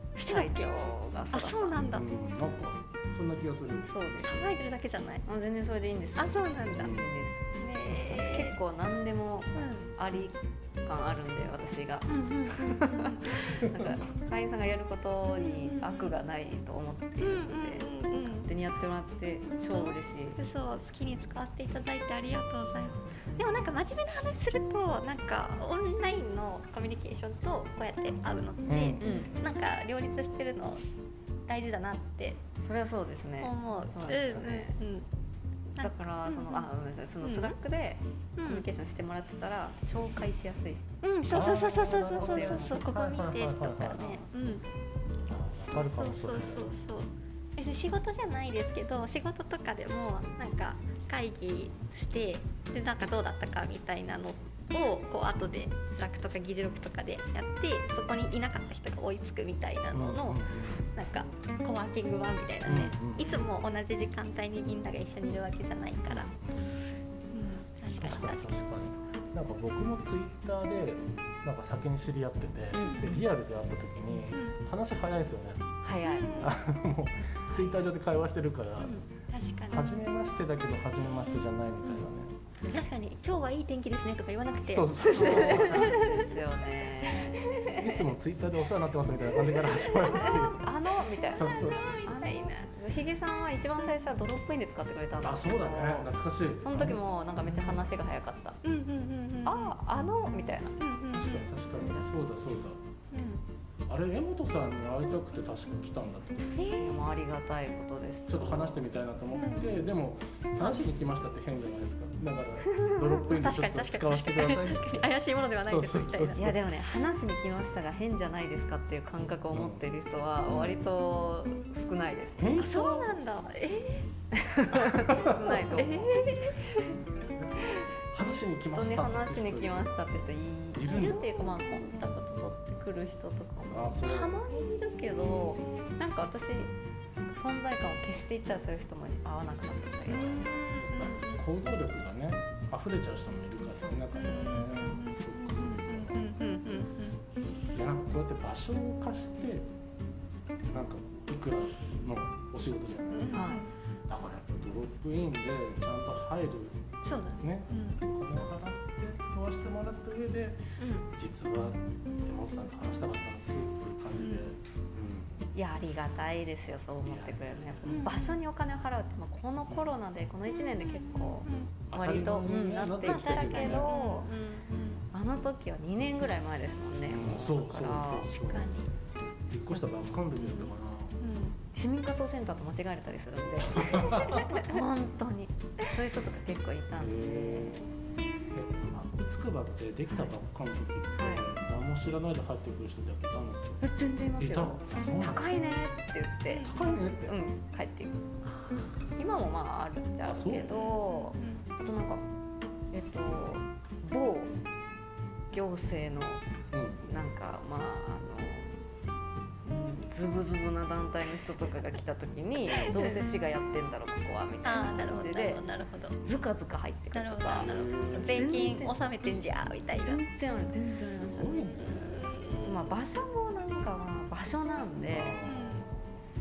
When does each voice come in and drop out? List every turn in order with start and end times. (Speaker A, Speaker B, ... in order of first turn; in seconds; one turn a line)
Speaker A: 0.2-0.7
Speaker B: 0.2-1.8
Speaker A: 1.3-2.1
Speaker C: 1.9-3.9
Speaker B: 3.9-4.4
Speaker A: 4.2-5.2
Speaker B: 5.2-20.4
Speaker A: 6.2-7.0
Speaker C: 6.7-7.1
Speaker A: 7.6-8.6
Speaker A: 9.5-9.9
Speaker A: 12.1-13.2
Speaker A: 15.4-16.1
Speaker A: 17.2-18.5
Speaker A: 19.7-30.8
Speaker C: 28.7-29.2
Speaker B: 29.0-29.4
Speaker A: 31.5-32.4
Speaker B: 32.6-34.7
Speaker A: 33.4-35.1
Speaker B: 35.8-42.8
Speaker A: 35.8-36.7
Speaker A: 37.2-37.5
Speaker A: 38.4-38.6
Speaker A: 41.0-44.6
Speaker C: 41.3-44.2
Speaker C: 45.3-46.8
Speaker A: 45.7-66.3
Speaker C: 59.9-60.9
Speaker C: 62.6-63.4
Speaker C: 66.1-66.4
Speaker A: 67.3-68.5
Speaker C: 68.0-75.6
Speaker B: 72.7-73.1
Speaker A: 72.8-73.2
Speaker A: 74.3-74.6
Speaker B: 75.8-76.5
Speaker A: 76.0-76.5
Speaker C: 76.4-79.0
Speaker B: 77.5-77.8
Speaker A: 78.8-79.9
Speaker C: 79.7-82.3
Speaker A: 82.6-86.2
Speaker C: 84.7-86.0
Speaker B: 85.1-87.4
Speaker A: 87.4-88.0
Speaker C: 87.7-90.6
Speaker A: 89.3-90.5
Speaker B: 90.1-91.5
Speaker A: 91.2-92.7
Speaker C: 91.3-92.1
Speaker B: 92.0-96.1
Speaker C: 95.2-97.9
Speaker B: 96.6-98.6
Speaker A: 98.6-99.8
Speaker B: 99.4-100.8
Speaker A: 100.8-101.5
Speaker C: 101.1-102.8
Speaker B: 101.8-102.0
Speaker A: 103.1-103.4
Speaker C: 103.9-106.6
Speaker A: 106.5-107.1
Speaker B: 106.8-108.8
Speaker C: 108.3-115.1
Speaker A: 109.3-109.8
Speaker A: 110.6-110.9
Speaker B: 112.7-113.0
Speaker A: 113.2-116.5
Speaker C: 115.6-116.7
Speaker B: 116.3-122.7
Speaker C: 119.5-119.8
Speaker C: 120.5-120.8
Speaker C: 122.4-123.1
Speaker A: 122.5-124.1
Speaker B: 124.4-126.5
Speaker C: 124.8-125.5
Speaker A: 125.4-126.9
Speaker C: 127.3-129.9
Speaker B: 128.7-136.7
Speaker C: 130.7-131.2
Speaker A: 130.9-132.1
Speaker C: 133.7-134.4
Speaker A: 134.5-135.9
Speaker B: 137.3-141.2
Speaker A: 140.1-141.4
Speaker C: 141.3-146.2
Speaker B: 143.7-144.8
Speaker A: 144.1-147.2
Speaker C: 147.7-149.7
Speaker C: 150.7-153.4
Speaker A: 153.1-153.7
Speaker B: 153.3-153.7
Speaker C: 154.1-156.8
Speaker A: 157.0-158.0
Speaker C: 157.4-165.4
Speaker A: 160.8-161.1
Speaker A: 164.1-164.5
Speaker B: 165.5-174.3
Speaker C: 167.0-168.0
Speaker A: 167.8-168.3
Speaker A: 170.9-171.8
Speaker C: 171.9-173.9
Speaker A: 173.0-175.1
Speaker B: 175.1-178.3
Speaker C: 177.0-178.8
Speaker A: 178.3-178.9
Speaker C: 179.5-181.2
Speaker A: 180.3-181.6
Speaker B: 181.7-187.9
Speaker C: 183.8-184.4
Speaker A: 184.5-184.8
Speaker C: 187.0-187.8
Speaker C: 188.5-193.8
Speaker B: 191.1-191.4
Speaker B: 193.8-196.7
Speaker C: 194.3-195.4
Speaker A: 196.5-196.8
Speaker C: 196.6-197.3
Speaker B: 197.2-198.3
Speaker B: 199.2-202.2
Speaker C: 200.2-200.7
Speaker A: 200.6-201.7
Speaker B: 202.9-204.5
Speaker B: 205.5-206.4
Speaker C: 206.7-207.0
Speaker B: 207.0-208.8
Speaker B: 209.6-215.6
Speaker A: 212.7-213.4
Speaker A: 214.6-216.2
Speaker B: 216.2-217.7
Speaker A: 217.1-220.2
Speaker C: 217.5-218.8
Speaker B: 218.3-219.0
Speaker B: 219.9-221.8
Speaker C: 220.9-222.7
Speaker A: 221.7-222.8
Speaker B: 222.6-225.4
Speaker C: 225.0-226.2
Speaker A: 225.4-225.9